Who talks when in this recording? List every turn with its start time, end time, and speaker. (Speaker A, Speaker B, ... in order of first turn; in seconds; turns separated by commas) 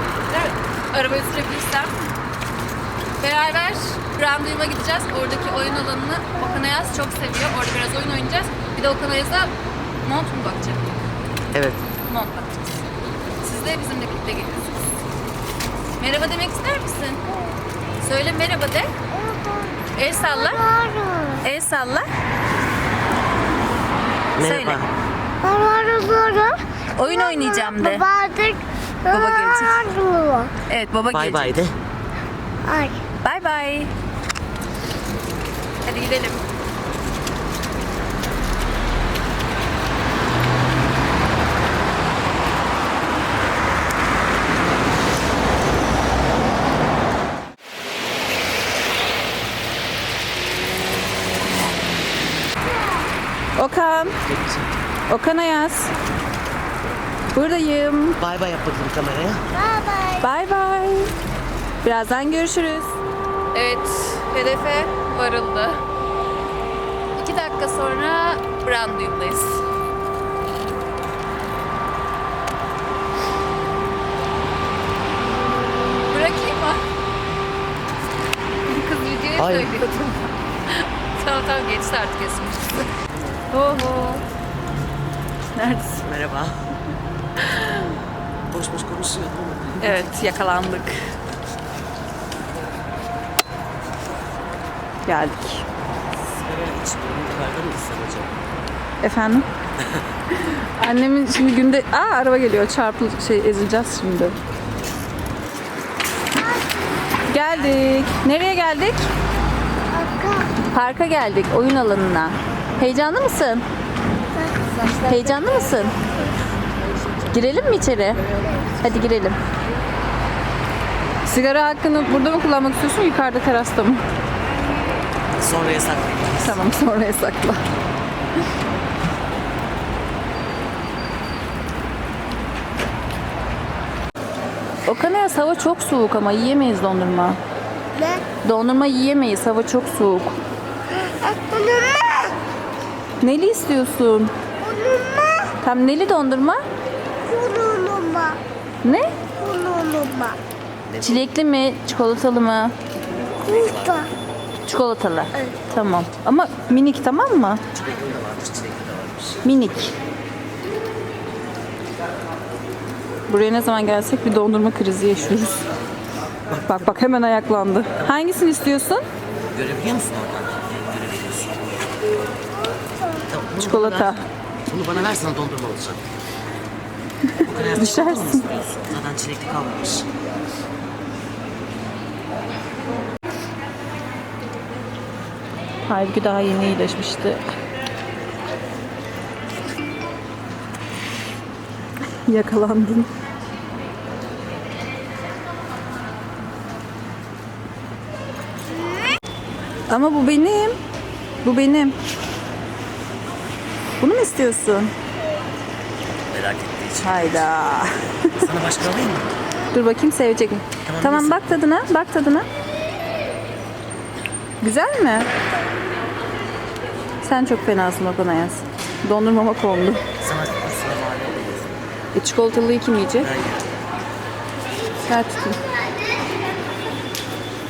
Speaker A: 0.3-2.0, Speaker A: 3.2-11.0, Speaker B: 11.5-11.8, Speaker A: 12.0-12.8, Speaker A: 13.4-14.8, Speaker A: 16.0-17.2, Speaker C: 17.3-17.6, Speaker A: 18.0-18.9, Speaker C: 19.1-21.4, Speaker A: 19.9-20.6, Speaker A: 21.4-22.1, Speaker A: 24.4-24.8, Speaker B: 24.4-24.9, Speaker C: 25.4-30.5, Speaker A: 27.0-28.0, Speaker A: 29.1-29.9, Speaker A: 30.7-31.6, Speaker B: 31.1-31.7, Speaker C: 32.6-33.0, Speaker A: 33.2-33.9, Speaker A: 35.8-36.4, Speaker C: 52.7-53.1, Speaker A: 53.6-54.2, Speaker B: 54.2-54.6, Speaker A: 55.1-55.9, Speaker A: 57.3-58.2, Speaker B: 58.2-59.4, Speaker C: 59.5-60.2, Speaker A: 60.2-61.1, Speaker A: 61.8-62.9, Speaker A: 63.5-65.8, Speaker A: 67.2-69.6, Speaker A: 76.1-76.8, Speaker A: 78.7-82.9, Speaker B: 79.4-79.8, Speaker A: 83.5-84.2, Speaker A: 85.5-86.0, Speaker B: 86.0-86.6, Speaker A: 87.4-87.8, Speaker B: 88.5-90.1, Speaker A: 89.8-91.0, Speaker A: 95.1-95.6, Speaker B: 96.2-98.4, Speaker A: 99.0-99.5, Speaker A: 100.3-104.4, Speaker C: 106.4-107.2, Speaker A: 107.3-109.0, Speaker C: 109.9-110.5, Speaker A: 110.7-113.6, Speaker C: 114.3-116.2, Speaker A: 115.0-116.0, Speaker A: 117.3-118.2, Speaker A: 118.8-119.4, Speaker A: 121.2-124.0, Speaker B: 125.4-126.6, Speaker A: 126.4-127.6, Speaker A: 134.8-137.4, Speaker C: 137.9-138.2, Speaker A: 138.4-140.4, Speaker C: 140.9-142.3, Speaker A: 143.2-144.3, Speaker C: 144.6-145.5, Speaker A: 145.6-146.6, Speaker C: 147.3-148.4, Speaker A: 148.8-149.1, Speaker C: 149.4-150.4, Speaker B: 150.8-151.3, Speaker A: 151.0-152.7, Speaker B: 153.4-154.1, Speaker C: 153.4-154.1, Speaker A: 154.7-157.6, Speaker C: 155.3-155.6, Speaker B: 157.7-159.5, Speaker A: 159.4-159.9, Speaker A: 163.3-165.6, Speaker B: 166.5-166.9, Speaker A: 166.6-169.0, Speaker B: 169.5-171.8, Speaker B: 173.3-176.0, Speaker A: 173.6-174.2, Speaker A: 177.3-178.4, Speaker B: 177.4-180.1, Speaker A: 185.9-187.4, Speaker A: 192.2-193.1, Speaker A: 199.9-200.8, Speaker A: 201.4-201.9, Speaker A: 204.0-204.9, Speaker B: 206.3-207.8, Speaker A: 207.0-208.5, Speaker B: 208.3-209.3, Speaker A: 209.7-212.5, Speaker B: 210.8-211.6, Speaker A: 214.6-215.3, Speaker A: 217.2-220.0, Speaker B: 220.2-221.8, Speaker A: 222.1-223.3, Speaker B: 223.2-223.7, Speaker A: 225.0-225.6